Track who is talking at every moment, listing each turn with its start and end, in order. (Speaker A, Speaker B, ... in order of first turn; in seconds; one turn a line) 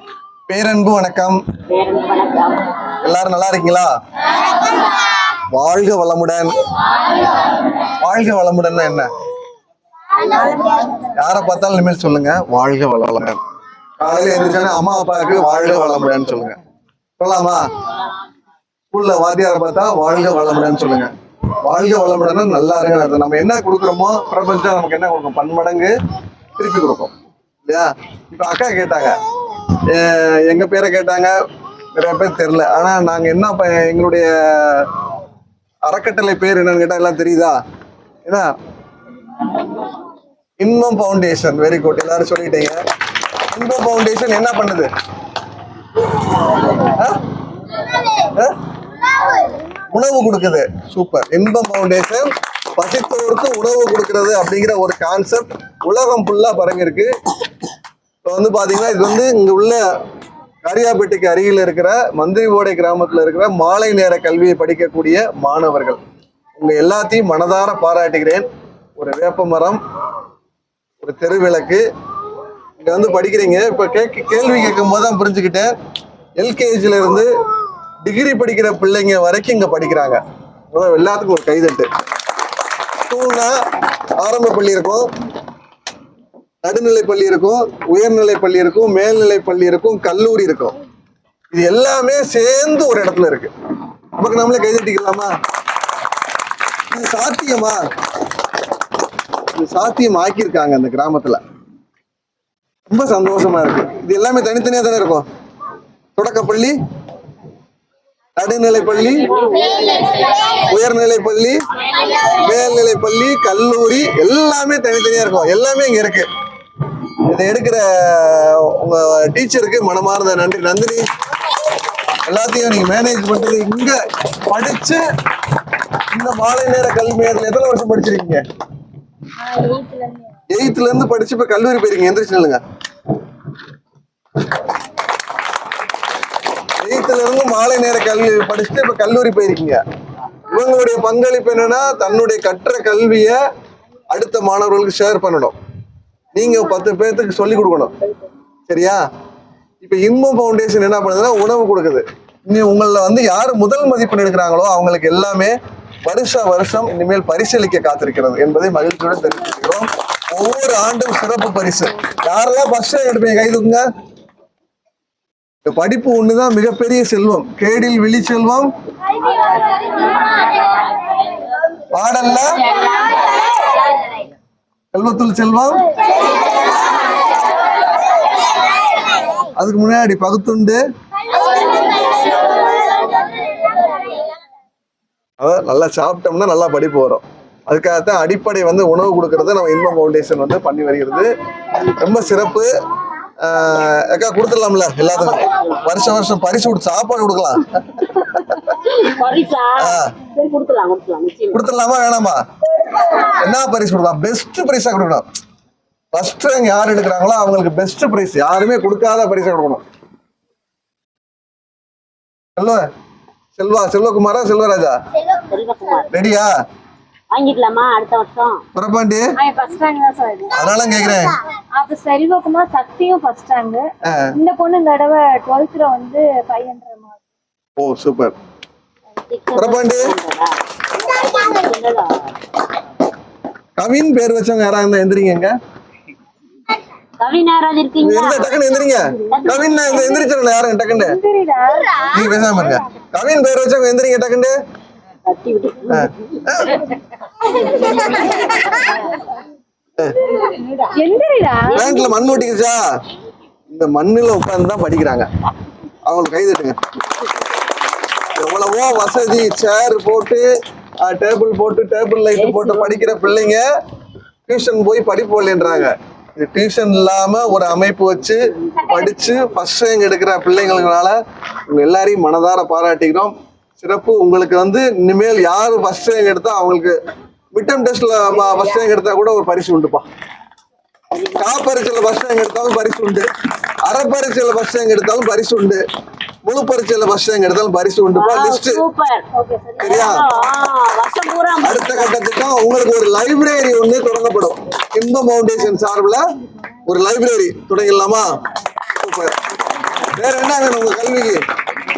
Speaker A: 0.5-1.4
Speaker B: 1.7-2.7
Speaker A: 3.0-3.9
Speaker A: 5.5-6.5
Speaker A: 8.0-9.1
Speaker C: 10.3-11.1
Speaker A: 11.1-13.4
Speaker A: 14.0-16.6
Speaker A: 17.2-17.6
Speaker A: 18.9-21.1
Speaker A: 21.6-25.9
Speaker A: 26.6-27.1
Speaker A: 27.7-29.2
Speaker A: 29.9-31.3
Speaker A: 31.9-34.9
Speaker A: 35.9-37.5
Speaker A: 40.6-42.7
Speaker A: 43.5-44.9
Speaker A: 46.8-47.2
Speaker A: 48.2-48.5
Speaker A: 49.9-57.1
Speaker A: 58.2-59.8
Speaker A: 60.6-66.0
Speaker A: 66.6-68.5
Speaker A: 69.0-69.8
Speaker A: 71.0-71.8
Speaker A: 72.8-75.7
Speaker A: 76.4-77.3
Speaker A: 78.0-80.2
Speaker A: 80.7-81.9
Speaker A: 83.1-83.5
Speaker A: 84.2-85.0
Speaker A: 86.6-90.7
Speaker A: 91.5-93.5
Speaker A: 94.2-95.3
Speaker A: 96.9-97.8
Speaker A: 99.5-101.4
Speaker A: 102.9-105.2
Speaker A: 106.2-106.7
Speaker A: 108.3-109.2
Speaker B: 109.3-110.1
Speaker A: 110.6-111.5
Speaker A: 112.2-116.3
Speaker A: 117.3-121.0
Speaker A: 122.2-124.0
Speaker A: 124.5-125.0
Speaker A: 126.1-128.4
Speaker C: 129.4-130.3
Speaker A: 130.5-132.6
Speaker A: 136.8-139.8
Speaker A: 140.5-143.4
Speaker A: 144.1-145.5
Speaker A: 146.3-147.9
Speaker A: 148.7-149.0
Speaker A: 149.8-163.8
Speaker A: 165.6-168.7
Speaker B: 169.1-170.4
Speaker A: 171.9-172.6
Speaker A: 174.9-175.8
Speaker A: 179.5-180.8
Speaker A: 185.4-191.3
Speaker A: 192.0-192.7
Speaker A: 193.4-198.4
Speaker B: 195.1-195.9
Speaker B: 198.3-201.6
Speaker A: 199.8-200.1
Speaker A: 201.5-202.4
Speaker A: 203.2-205.2
Speaker A: 206.1-209.8
Speaker A: 212.6-212.8
Speaker A: 213.6-214.9
Speaker B: 215.3-216.1
Speaker A: 216.1-216.5
Speaker B: 217.3-218.6
Speaker A: 218.7-219.3
Speaker C: 219.4-220.5
Speaker A: 220.5-221.3
Speaker C: 221.8-227.2
Speaker A: 227.8-228.3
Speaker B: 229.2-232.3
Speaker A: 229.5-230.1
Speaker A: 233.8-235.5
Speaker B: 237.2-238.5
Speaker A: 238.0-241.2
Speaker B: 239.3-240.2
Speaker C: 240.9-242.0
Speaker A: 242.1-244.5
Speaker B: 245.3-246.4
Speaker A: 245.9-246.8
Speaker B: 247.6-248.4
Speaker C: 250.4-251.9
Speaker A: 251.7-252.8
Speaker A: 253.7-255.2
Speaker A: 256.0-256.8
Speaker A: 258.3-260.4
Speaker A: 261.0-263.6
Speaker B: 262.3-263.2
Speaker A: 264.5-271.1
Speaker A: 271.7-276.9
Speaker A: 277.5-280.0
Speaker B: 281.1-281.5
Speaker A: 281.4-283.2
Speaker A: 283.8-285.8
Speaker A: 286.4-288.8
Speaker B: 288.1-289.2
Speaker C: 289.3-290.3
Speaker A: 289.8-290.2
Speaker B: 289.8-292.1
Speaker A: 291.6-296.2
Speaker A: 296.9-298.3
Speaker A: 299.0-299.3
Speaker A: 300.1-301.4